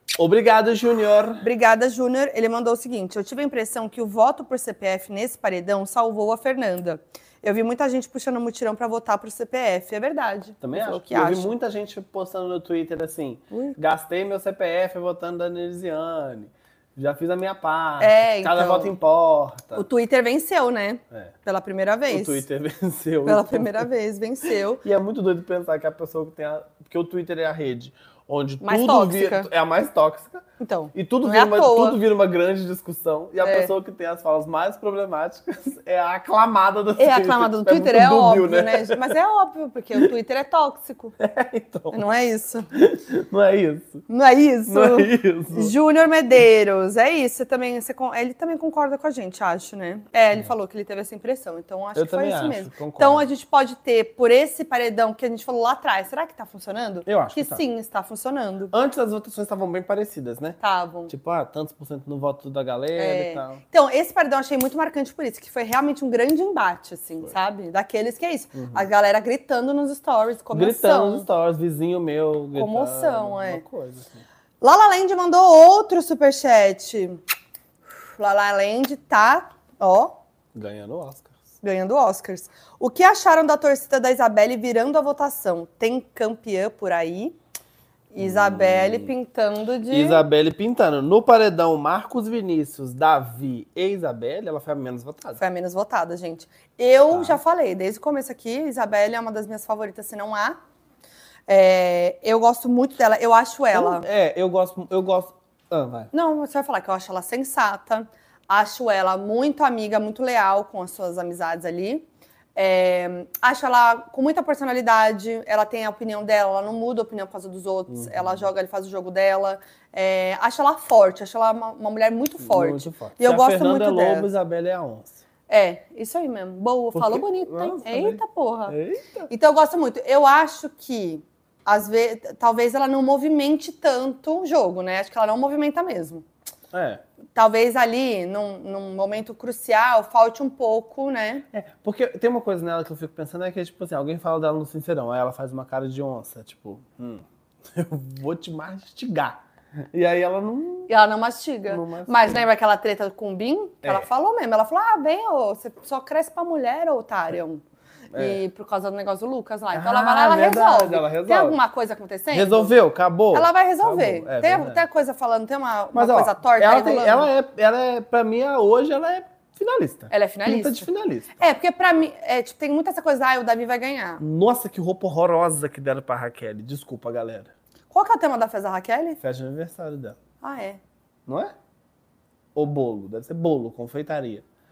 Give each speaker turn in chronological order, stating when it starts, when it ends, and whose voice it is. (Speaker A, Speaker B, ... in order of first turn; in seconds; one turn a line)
Speaker A: 0.2-1.4
Speaker B: 1.4-11.5
Speaker A: 10.6-19.9
Speaker B: 13.5-13.8
Speaker B: 18.0-18.9
Speaker B: 19.7-22.4
Speaker A: 22.1-23.9
Speaker B: 23.2-24.8
Speaker A: 24.8-39.1
Speaker B: 28.6-29.5
Speaker B: 30.6-32.0
Speaker B: 33.4-33.7
Speaker B: 37.0-41.2
Speaker A: 41.2-42.0
Speaker B: 41.9-42.7
Speaker A: 42.7-44.0
Speaker B: 44.1-58.7
Speaker A: 44.7-45.7
Speaker A: 51.9-53.2
Speaker A: 57.0-57.6
Speaker A: 58.7-63.6
Speaker B: 60.6-61.1
Speaker B: 63.0-71.3
Speaker A: 68.5-68.8
Speaker A: 70.5-74.2
Speaker B: 72.5-73.6
Speaker B: 74.6-77.2
Speaker B: 78.2-80.2
Speaker A: 80.5-81.3
Speaker B: 81.6-87.3
Speaker B: 88.1-90.2
Speaker A: 88.2-89.1
Speaker A: 89.9-95.4
Speaker B: 95.4-100.6
Speaker A: 97.1-97.4
Speaker B: 101.5-104.0
Speaker A: 103.7-106.1
Speaker B: 106.1-124.3
Speaker A: 117.9-118.4
Speaker A: 122.4-125.2
Speaker B: 125.5-128.7
Speaker A: 126.9-129.3
Speaker B: 129.3-136.2
Speaker A: 136.7-137.0
Speaker B: 137.3-141.4
Speaker A: 141.5-149.4
Speaker A: 149.9-150.9
Speaker B: 150.9-157.6
Speaker A: 151.7-152.4
Speaker A: 158.1-158.4
Speaker B: 158.1-162.8
Speaker A: 159.7-161.6
Speaker A: 162.3-164.8
Speaker B: 163.3-167.3
Speaker A: 165.9-171.4
Speaker B: 170.1-170.9
Speaker B: 171.4-174.2
Speaker A: 174.2-177.5
Speaker B: 177.9-179.2
Speaker A: 179.2-180.2
Speaker B: 180.4-180.8
Speaker A: 181.3-181.5
Speaker A: 182.5-184.4